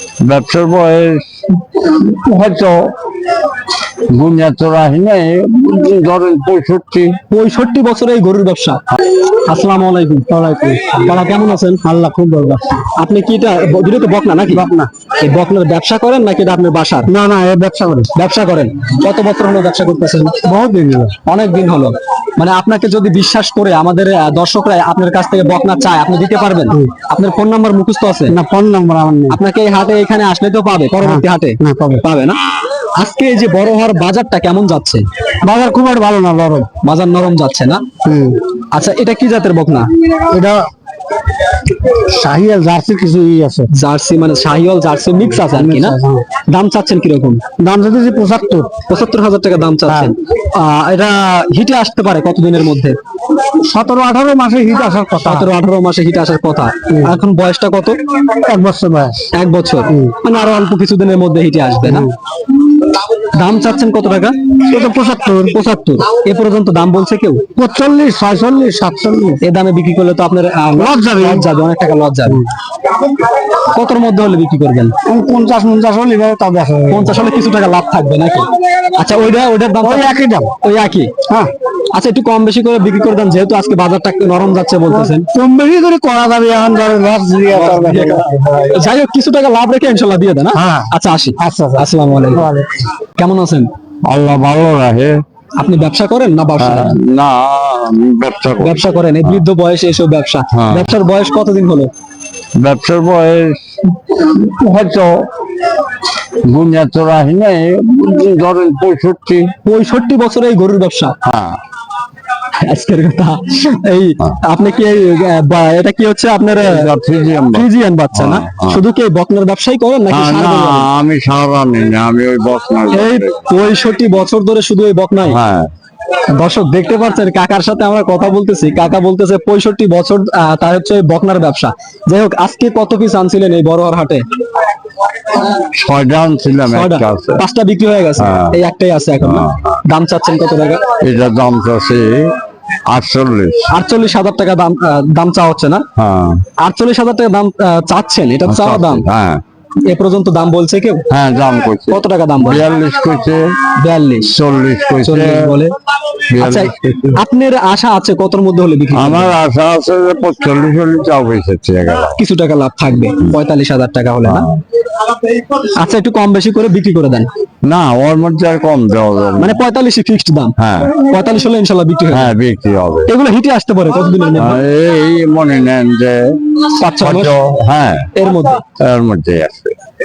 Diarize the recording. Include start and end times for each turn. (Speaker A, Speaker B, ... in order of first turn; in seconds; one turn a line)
Speaker A: 0.2-2.9
Speaker A: 4.1-7.2
Speaker B: 7.3-8.8
Speaker B: 9.5-10.3
Speaker C: 10.3-11.2
Speaker B: 11.0-11.8
Speaker C: 11.8-12.6
Speaker B: 13.0-14.7
Speaker C: 14.5-14.9
Speaker B: 15.2-17.1
Speaker C: 17.1-18.1
Speaker B: 18.1-20.4
Speaker C: 20.4-21.1
Speaker B: 21.2-28.4
Speaker C: 28.3-29.4
Speaker B: 29.3-32.4
Speaker C: 31.0-32.0
Speaker B: 33.0-35.1
Speaker C: 35.4-36.7
Speaker B: 36.8-37.8
Speaker C: 38.0-38.4
Speaker B: 38.7-39.9
Speaker C: 40.3-40.7
Speaker C: 41.9-43.7
Speaker B: 43.7-46.0
Speaker C: 45.5-46.2
Speaker B: 46.5-47.4
Speaker C: 47.6-48.7
Speaker B: 48.9-53.0
Speaker C: 53.5-55.5
Speaker B: 55.2-58.0
Speaker C: 56.9-57.1
Speaker C: 58.3-59.3
Speaker B: 59.3-62.1
Speaker C: 59.9-60.1
Speaker C: 61.8-62.1
Speaker B: 63.2-64.4
Speaker C: 64.7-65.5
Speaker B: 65.5-67.5
Speaker C: 67.6-69.4
Speaker B: 69.4-72.5
Speaker C: 70.8-71.5
Speaker B: 73.5-75.0
Speaker C: 75.0-77.2
Speaker B: 76.9-80.1
Speaker C: 79.8-80.5
Speaker B: 80.6-81.1
Speaker B: 81.9-85.3
Speaker C: 84.9-88.8
Speaker B: 87.5-92.5
Speaker C: 90.5-92.9
Speaker B: 93.2-93.7
Speaker A: 94.1-95.2
Speaker B: 95.6-97.0
Speaker A: 96.6-99.4
Speaker B: 98.6-101.9
Speaker A: 100.5-100.9
Speaker A: 102.6-105.3
Speaker A: 106.3-109.5
Speaker B: 109.7-111.2
Speaker A: 111.2-111.6
Speaker B: 112.6-116.9
Speaker A: 116.6-118.8
Speaker B: 117.5-120.9
Speaker A: 120.1-123.5
Speaker B: 122.9-125.4
Speaker A: 125.2-125.7
Speaker B: 126.3-134.2
Speaker A: 135.4-137.4
Speaker B: 136.7-140.9
Speaker A: 138.2-138.6
Speaker A: 139.2-139.8
Speaker A: 141.0-142.3
Speaker A: 142.9-143.7
Speaker B: 143.7-145.8
Speaker A: 146.0-146.4
Speaker B: 146.6-149.1
Speaker A: 148.5-149.4
Speaker B: 149.9-151.1
Speaker A: 151.1-153.4
Speaker B: 151.9-152.7
Speaker B: 153.8-154.3
Speaker A: 154.2-155.6
Speaker B: 155.0-155.8
Speaker A: 156.3-157.2
Speaker B: 156.4-159.3
Speaker A: 158.9-162.2
Speaker B: 162.2-164.5
Speaker A: 164.2-164.6
Speaker B: 165.5-167.3
Speaker A: 167.6-169.6
Speaker B: 169.4-172.3
Speaker A: 170.6-170.9
Speaker A: 172.1-173.1
Speaker B: 173.1-174.6
Speaker A: 174.4-178.1
Speaker B: 176.7-177.4
Speaker B: 178.2-178.6
Speaker A: 178.8-179.7